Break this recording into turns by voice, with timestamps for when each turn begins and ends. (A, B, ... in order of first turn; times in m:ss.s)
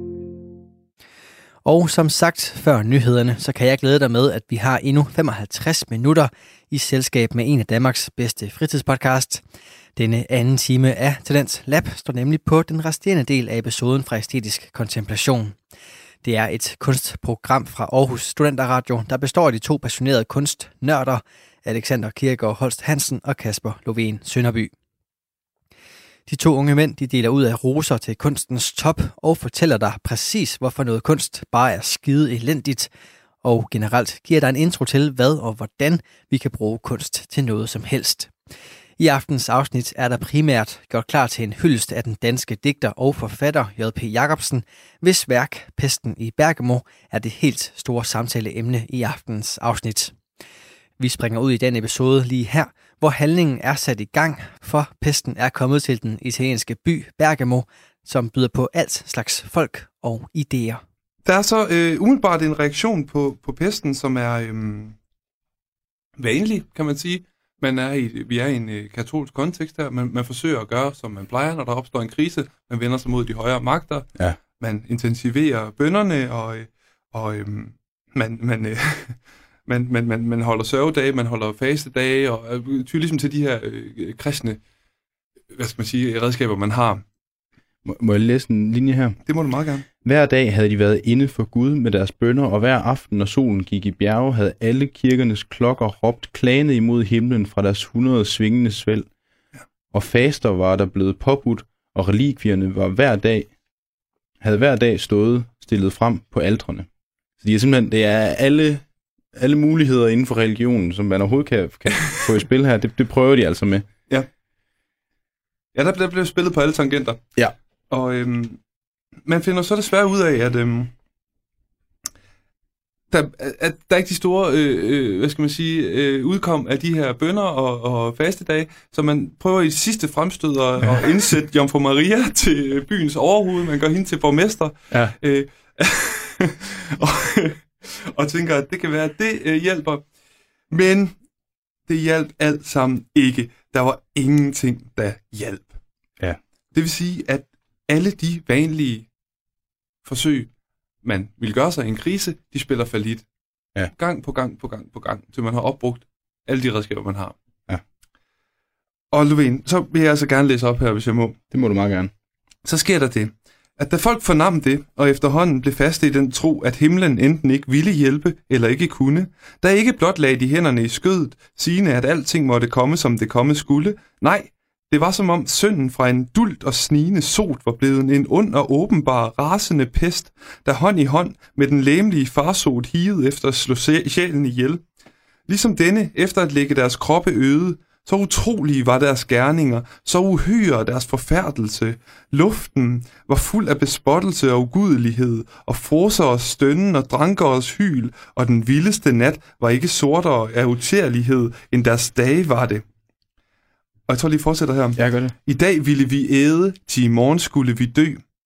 0:01.6-0:09.4 A
0:10.0-0:15.6 A
0:16.2-0:24.7 A
0:26.3-0:32.9 A
0:33.4-0:38.3 A
0:39.0-0:50.2 A
0:51.0-1:00.8 A
1:01.2-1:05.0 B
1:06.2-1:24.6 B
1:25.5-1:27.0 B
1:27.8-1:29.2 C
1:29.2-1:29.9 B
1:30.0-1:39.1 C
1:39.9-1:43.5 C
1:44.4-1:46.9 C
1:47.4-1:53.9 C
1:55.8-1:57.2 B
1:57.9-1:58.6 B
1:59.2-2:00.9 B
2:03.1-2:20.1 B
2:20.7-2:21.2 B
2:21.9-2:25.8 B
2:26.7-2:29.1 B
2:30.0-2:30.5 B
2:31.0-2:33.3 B
2:33.9-2:37.4 B
2:39.1-2:41.4 B
2:41.5-2:42.1 C
2:42.6-3:04.8 B
3:05.5-3:22.8 B
3:24.1-3:28.2 B
3:25.0-3:25.3 C